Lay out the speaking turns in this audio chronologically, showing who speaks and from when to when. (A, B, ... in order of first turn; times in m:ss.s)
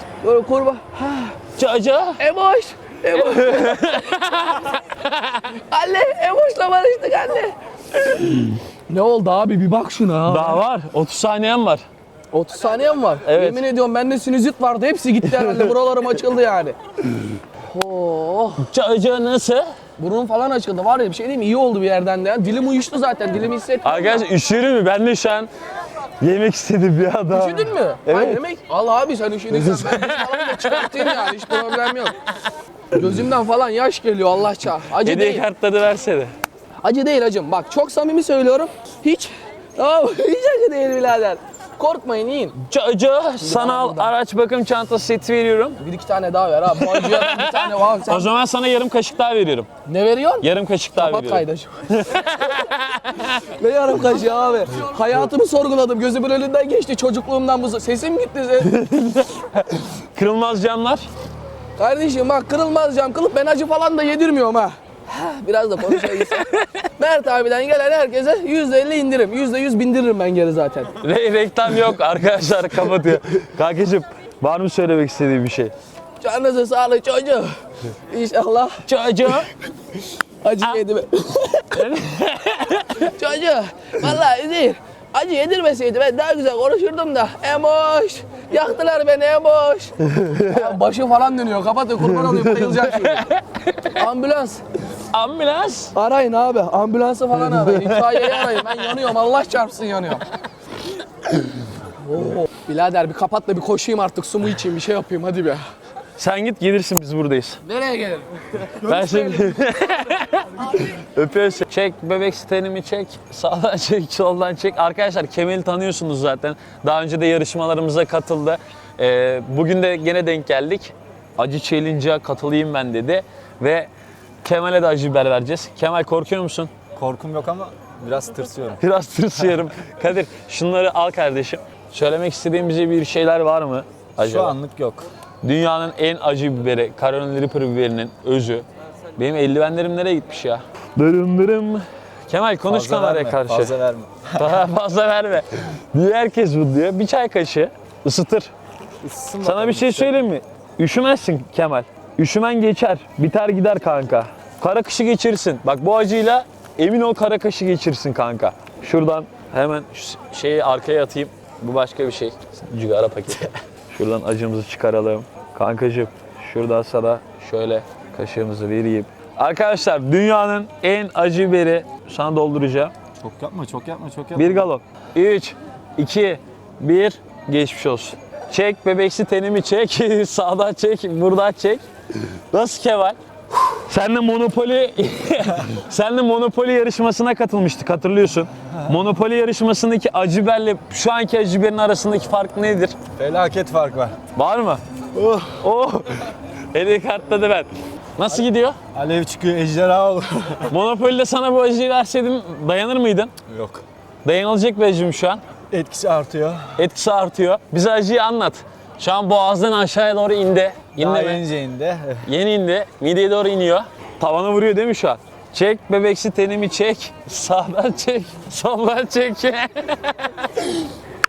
0:00.2-0:01.3 A
0:01.6-0:02.2 B
0:02.2-0:04.0 A
0:03.1-0:05.4 B
0:05.7-0:10.6 A
0:10.3-0:11.9 B
0:12.3-0:16.8 A
0:13.2-0:13.6 B
0:15.3-0:15.7 B
0:17.7-0:18.6 A
0:18.6-0:19.7 B
0:20.0-0:24.2 A
0:23.8-0:25.5 B
0:26.2-0:28.4 B
0:27.3-0:32.2 A
0:29.5-0:31.9 B
0:32.9-0:35.4 A
0:35.0-0:36.3 B
0:36.8-0:42.6 A
0:42.6-0:45.8 B
0:43.4-0:44.1 A
0:45.8-0:48.3 A
0:46.8-0:49.7 B
0:49.9-0:52.5 A
0:50.4-0:53.4 B
0:53.5-0:58.7 A
0:58.6-1:01.1 B
1:01.8-1:10.9 A
1:05.9-1:06.6 B
1:11.0-1:15.7 B
1:16.2-1:17.5 A
1:18.1-1:18.8 A
1:18.8-1:19.5 B
1:20.4-1:22.0 A
1:21.7-1:23.1 B
1:23.0-1:33.3 A
1:32.5-1:33.9 B
1:34.0-1:34.6 A
1:35.1-1:35.9 B
1:36.0-1:40.3 A
1:38.1-1:38.6 B
1:42.0-1:45.6 A
1:46.2-1:47.6 B
1:47.6-1:49.5 A
1:48.8-2:03.9 B
2:04.4-2:06.7 B
2:07.0-2:08.8 C
2:08.8-2:14.6 B
2:14.2-2:15.1 C
2:15.4-2:18.6 B
2:19.2-2:23.8 B
2:22.7-2:24.6 C
2:24.4-2:28.5 B
2:29.0-2:30.2 C
2:29.4-2:52.9 B
2:53.2-2:54.7 C
2:54.4-3:03.2 B
3:03.8-3:13.0 B
3:13.2-3:14.2 C
3:14.3-3:14.8 B
3:15.1-3:15.6 C
3:15.6-3:16.2 B
3:16.7-3:18.8 B
3:18.9-3:20.7 C
3:20.7-3:23.3 B
3:23.5-3:23.8 C
3:24.2-3:25.4 B
3:25.7-3:26.7 C
3:26.8-3:31.4 B
3:31.0-3:32.2 C
3:32.3-3:40.9 B